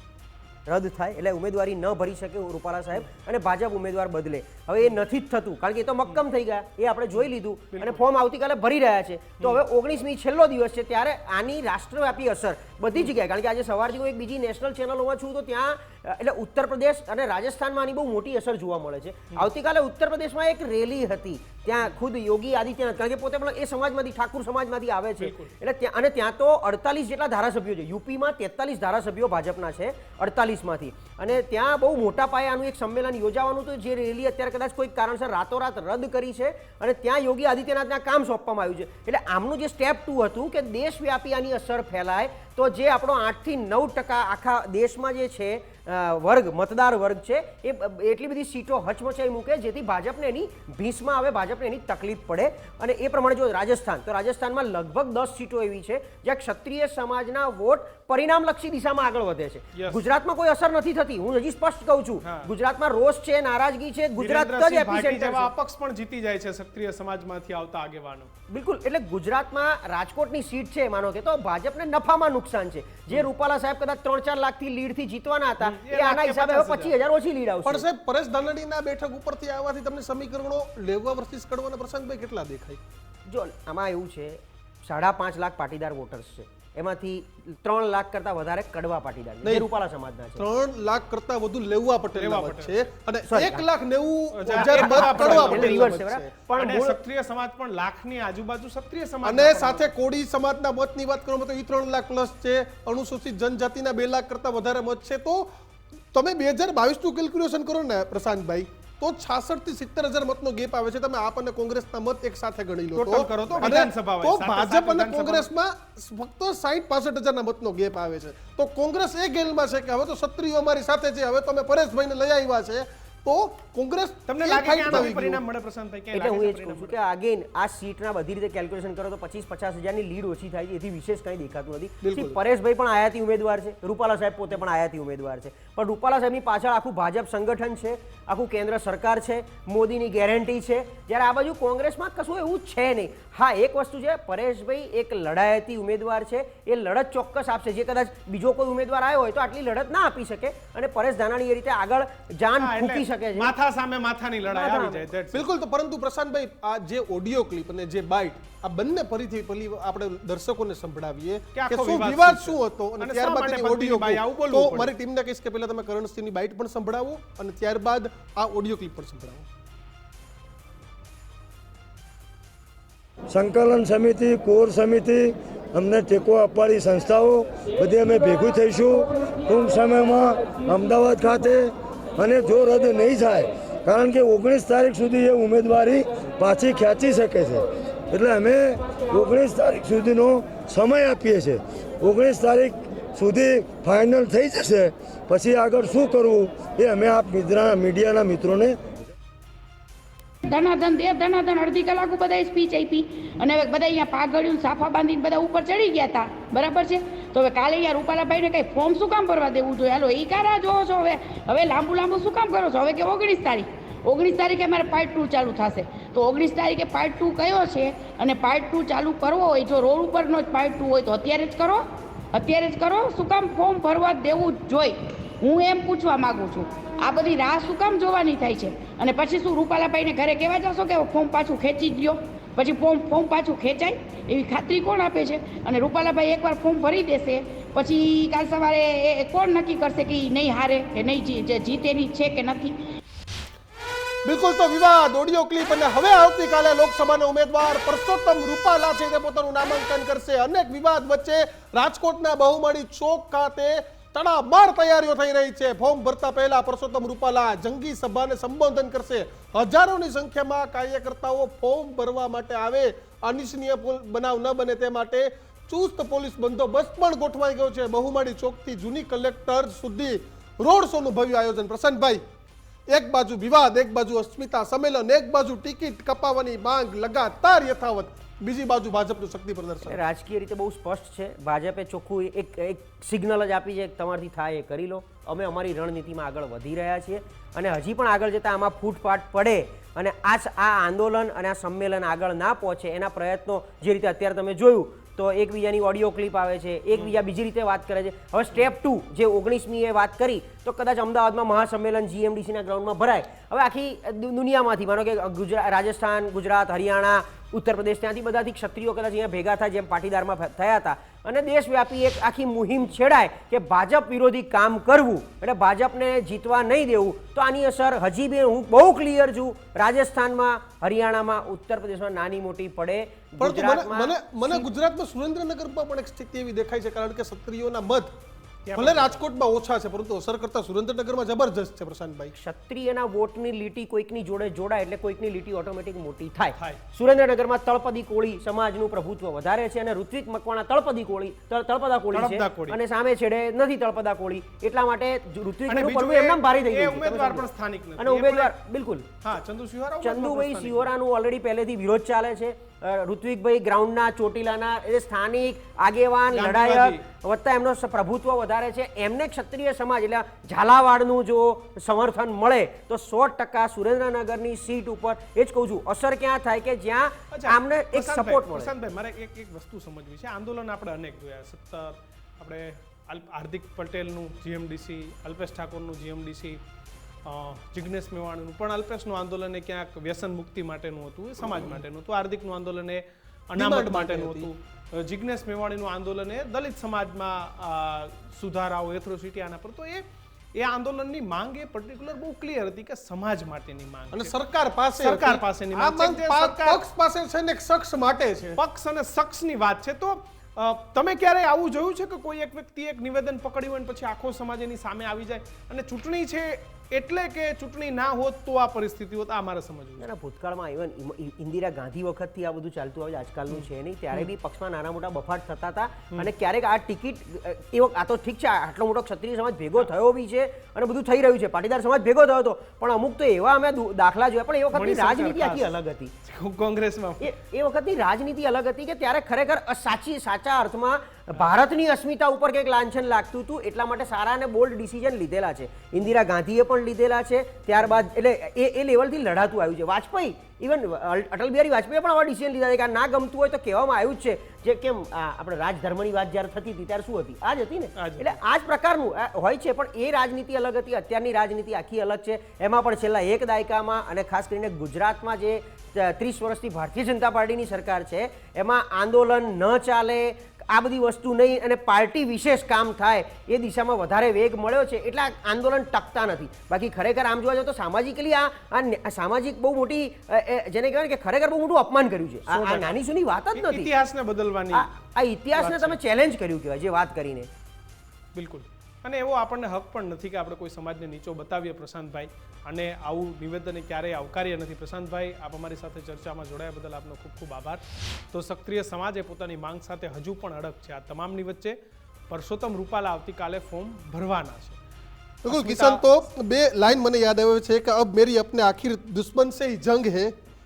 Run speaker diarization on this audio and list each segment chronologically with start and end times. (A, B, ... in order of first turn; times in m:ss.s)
0:00.7-1:05.5 A
0:07.2-0:08.0 B
0:25.2-0:25.5 B
0:59.8-1:00.0 B
1:02.2-1:02.5 B
1:04.2-1:08.3 B
1:08.5-1:17.8 A
1:15.6-1:17.0 B
1:17.6-1:22.8 C
1:23.3-1:30.4 A
1:30.4-1:36.3 C
1:32.2-1:32.9 B
1:33.3-1:33.6 A
1:34.4-1:39.9 B
1:34.5-1:37.0 A
1:39.2-1:45.5 C
1:46.1-2:05.4 C
1:52.9-1:55.5 B
2:04.3-2:07.0 B
2:04.9-2:05.1 A
2:06.1-2:33.5 A
2:12.0-2:12.4 C
2:32.6-2:35.4 B
2:34.5-2:35.1 A
2:35.3-2:49.5 C
2:41.6-2:44.9 B
2:53.3-3:18.8 D
3:20.4-4:02.8 E
4:04.2-4:32.2 C
4:32.9-4:40.0 C
4:39.8-5:24.7 A
4:56.9-4:57.2 B
5:23.4-5:28.1 C
5:28.6-5:29.2 B
5:28.8-5:32.3 C
5:32.3-5:49.1 A
5:42.1-5:42.8 B
5:45.7-5:48.5 B
5:49.2-5:50.9 B
5:50.0-6:08.7 A
5:56.3-5:57.0 B
6:07.3-6:16.6 B
6:17.2-6:30.0 B
6:23.6-6:24.5 C
6:30.6-6:34.3 B
6:34.1-6:38.6 C
6:35.0-6:36.8 B
6:38.6-6:50.1 B
6:50.0-7:06.1 A
6:53.5-6:54.3 B
7:04.7-7:05.7 B
7:06.2-7:07.3 B
7:07.2-7:53.9 A
7:28.0-7:28.4 B
7:52.5-7:53.0 B
7:53.6-7:54.9 B
7:54.7-7:57.5 A
7:55.6-7:56.0 B
7:58.4-8:11.8 B
8:12.3-8:14.8 B
8:15.4-8:20.3 C
8:15.5-8:16.0 B